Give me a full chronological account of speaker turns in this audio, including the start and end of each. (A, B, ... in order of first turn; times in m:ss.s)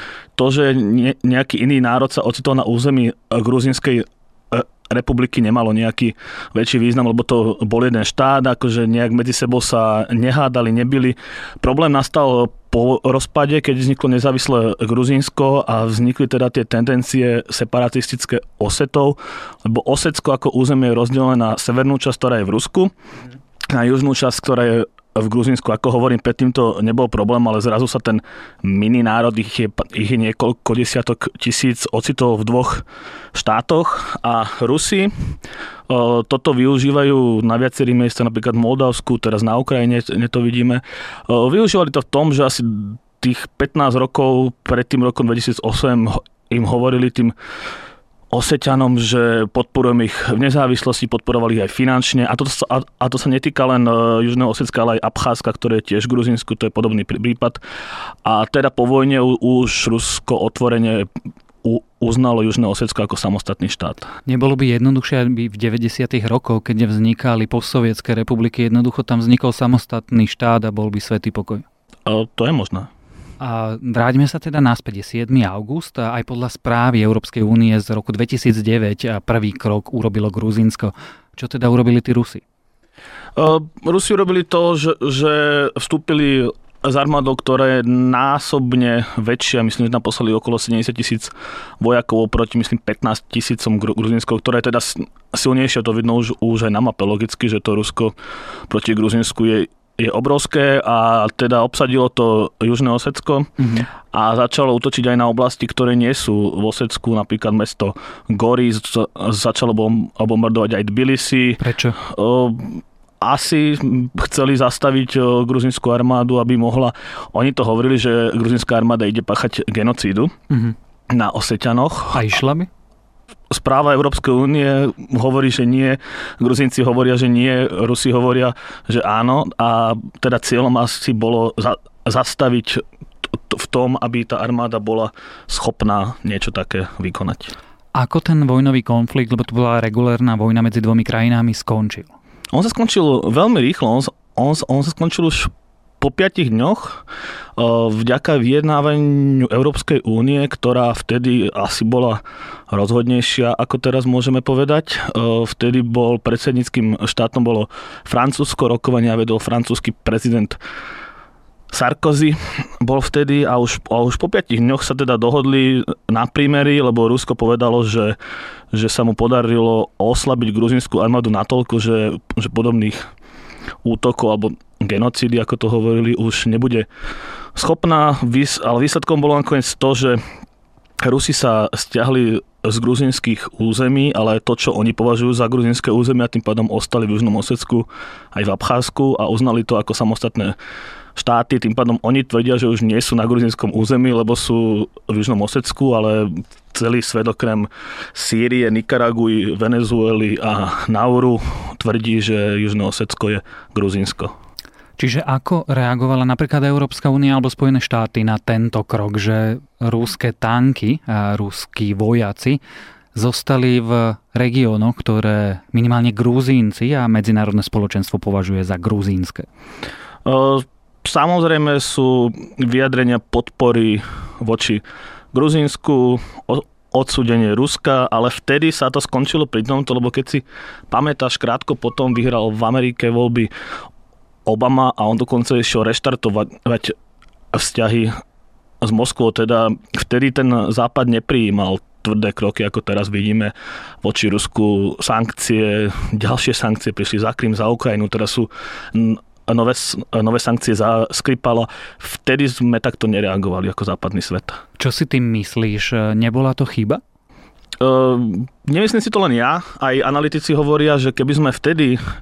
0:00.4-0:22.9 A
0:23.7-0:35.1 A
0:35.9-0:47.3 A
0:48.3-0:57.6 A
0:58.2-1:01.1 A
1:01.6-1:04.1 A
1:04.3-1:11.6 B
1:12.1-1:12.9 A
1:13.4-1:22.4 B
1:23.4-1:38.2 A
1:38.7-1:43.5 A
1:43.6-1:43.9 B
1:44.1-2:00.3 A
1:51.6-1:52.0 B
2:00.5-2:00.8 B
2:01.1-2:02.2 A
2:02.1-2:02.7 B
2:03.5-2:12.8 A
2:13.3-2:17.5 A
2:17.9-2:22.1 B
2:22.5-2:27.0 A
2:27.6-2:40.6 A
2:41.7-2:48.2 A
2:48.7-2:53.0 A
2:53.8-2:56.9 A
2:57.6-3:00.2 A
3:01.0-3:10.6 A
3:11.2-3:24.3 A
3:25.0-3:32.6 B
3:33.2-3:39.5 B
3:40.2-3:53.5 A
3:54.5-3:57.0 A
3:57.5-3:58.2 A
3:58.8-4:14.6 A
4:14.8-4:17.0 B
4:17.8-4:22.0 A